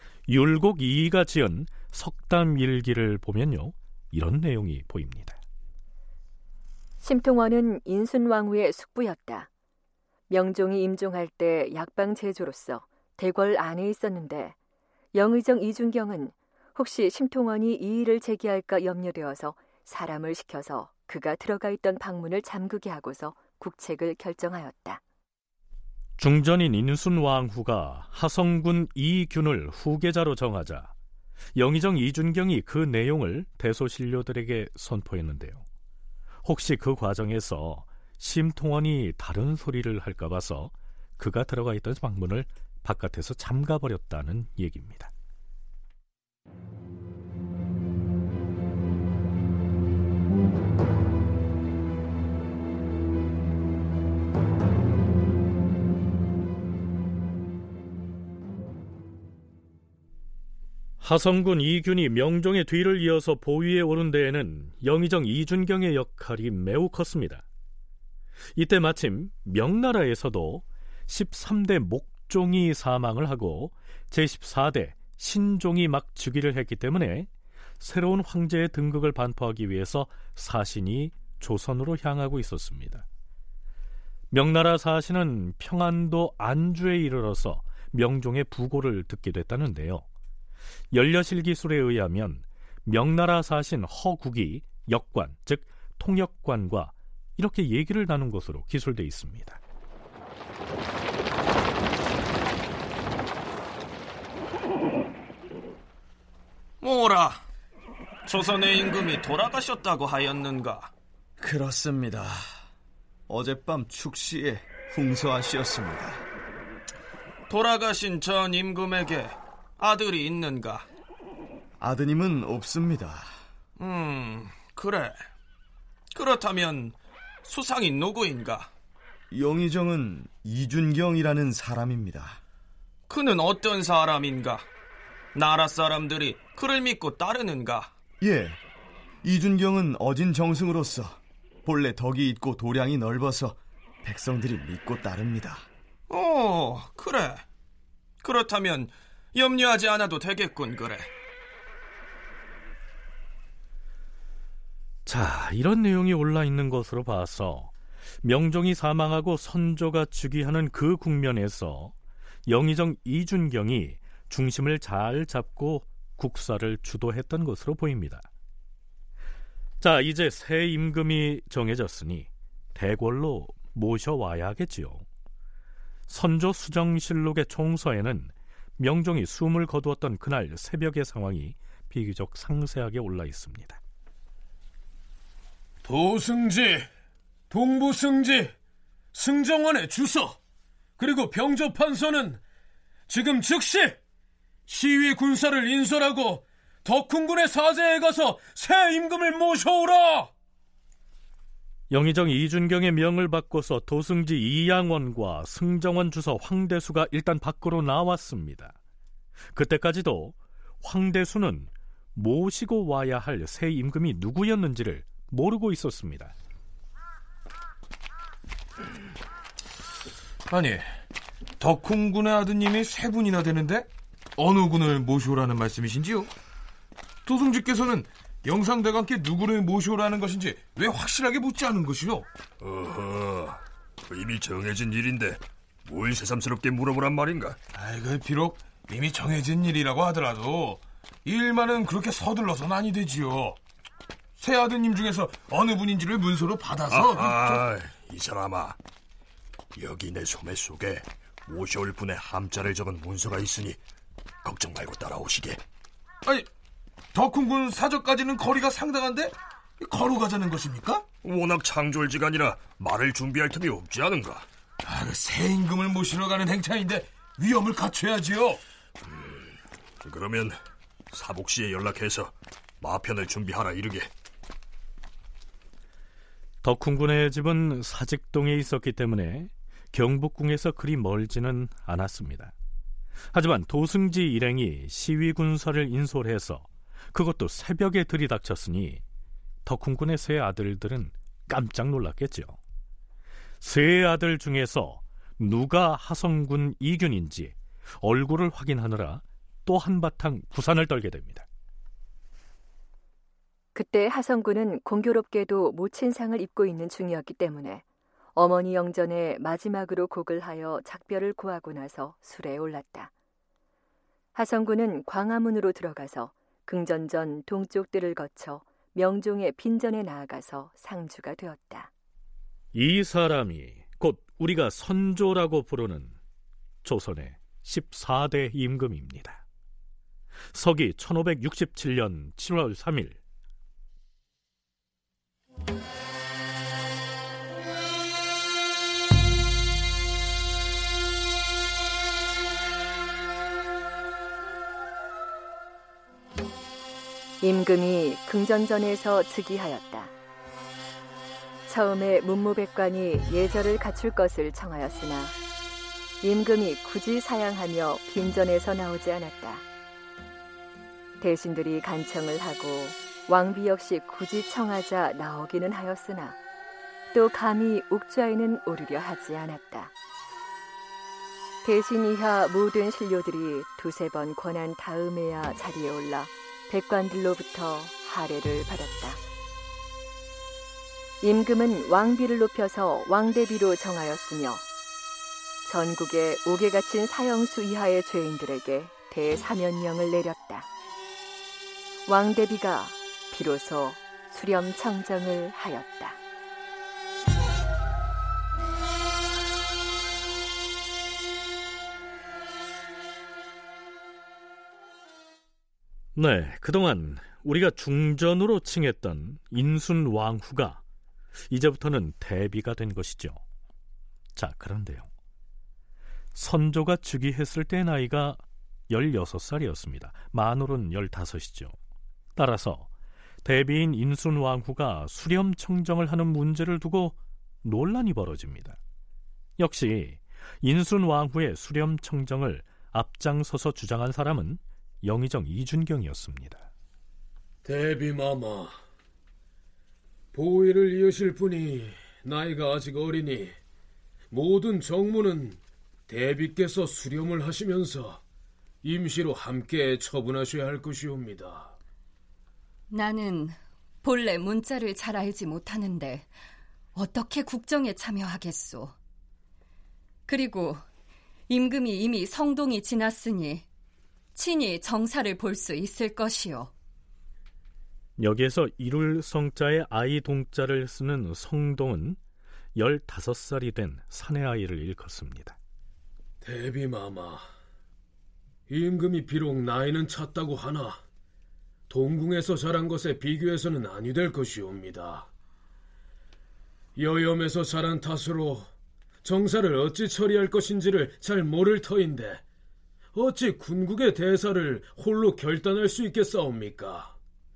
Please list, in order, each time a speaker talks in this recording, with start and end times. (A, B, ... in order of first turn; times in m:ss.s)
0:00.3-0:05.4 A
0:07.0-0:09.5 B
0:10.3-0:14.5 B
0:15.1-0:25.0 B
0:26.2-0:30.9 A
0:31.5-0:35.6 A
0:36.4-0:45.1 A
1:01.0-1:07.4 A
1:08.6-1:23.0 A
1:24.3-1:30.0 A
1:30.9-1:39.6 A
1:46.8-1:47.4 C
1:48.2-1:50.9 C
1:51.4-1:52.4 D
1:53.3-1:56.2 D
1:57.5-2:00.9 C
2:01.8-2:03.3 D
2:03.8-2:05.3 C
2:06.1-2:08.7 C
2:09.3-2:12.4 D
2:13.1-2:14.7 C
2:15.3-2:17.9 C
2:18.2-2:18.6 D
2:19.2-2:25.7 D
2:26.1-2:27.4 C
2:28.2-2:31.1 C
2:35.0-2:37.7 A
2:38.2-2:41.9 A
2:42.4-2:48.3 A
2:49.8-2:55.0 A
2:56.1-3:03.8 A
3:05.8-3:06.9 E
3:07.5-3:08.5 E
3:09.1-3:10.4 E
3:11.0-3:12.4 E
3:13.1-3:14.0 E
3:14.7-3:20.3 E
3:21.9-3:28.8 A
3:29.5-3:36.3 A
3:40.5-3:40.8 F
3:41.6-3:46.3 F
3:47.2-3:52.3 F
3:52.6-3:57.6 G
3:57.7-4:03.6 F
4:04.4-4:07.6 F
4:06.9-4:08.8 G
4:09.8-4:13.8 G
4:14.4-4:15.6 G
4:17.1-4:21.0 F
4:21.2-4:24.4 G
4:24.8-4:28.6 F
4:29.1-4:29.5 G
4:30.0-4:30.6 G
4:31.1-4:34.1 G
4:36.6-4:42.5 A
4:43.3-4:49.0 A
4:49.6-4:52.6 A
4:53.6-5:01.4 A
5:03.7-5:07.8 B
5:08.3-5:13.1 B
5:14.3-5:21.9 B
5:22.7-5:26.2 A
5:26.8-5:29.4 A
5:30.5-5:33.2 A
5:47.4-5:50.1 B
5:51.7-5:55.3 B
5:56.2-5:59.6 B
6:01.2-6:06.4 B
6:07.1-6:09.9 B
6:11.6-6:19.2 B
6:21.2-6:24.6 B
6:25.6-6:30.7 B
6:32.0-6:36.2 B
6:46.1-6:50.8 A
6:51.5-6:53.4 A
6:54.4-6:55.1 A
6:56.3-7:01.7 A
7:02.3-7:02.9 A
7:03.4-7:08.8 A
7:09.6-7:16.6 A
7:17.6-7:18.8 E
7:20.3-7:23.6 E
7:24.3-7:28.2 E
7:28.8-7:31.7 E
7:32.9-7:36.3 H
7:36.9-7:38.9 H
7:40.3-7:40.8 H
7:41.5-7:43.6 H
7:44.3-7:46.7 H
7:48.2-7:52.2 A
7:52.8-7:55.6 A
7:56.4-7:57.5 E
7:58.7-8:01.0 E
8:01.9-8:05.3 E
8:07.0-8:08.7 E
8:09.2-8:12.4 E
8:13.1-8:17.2 E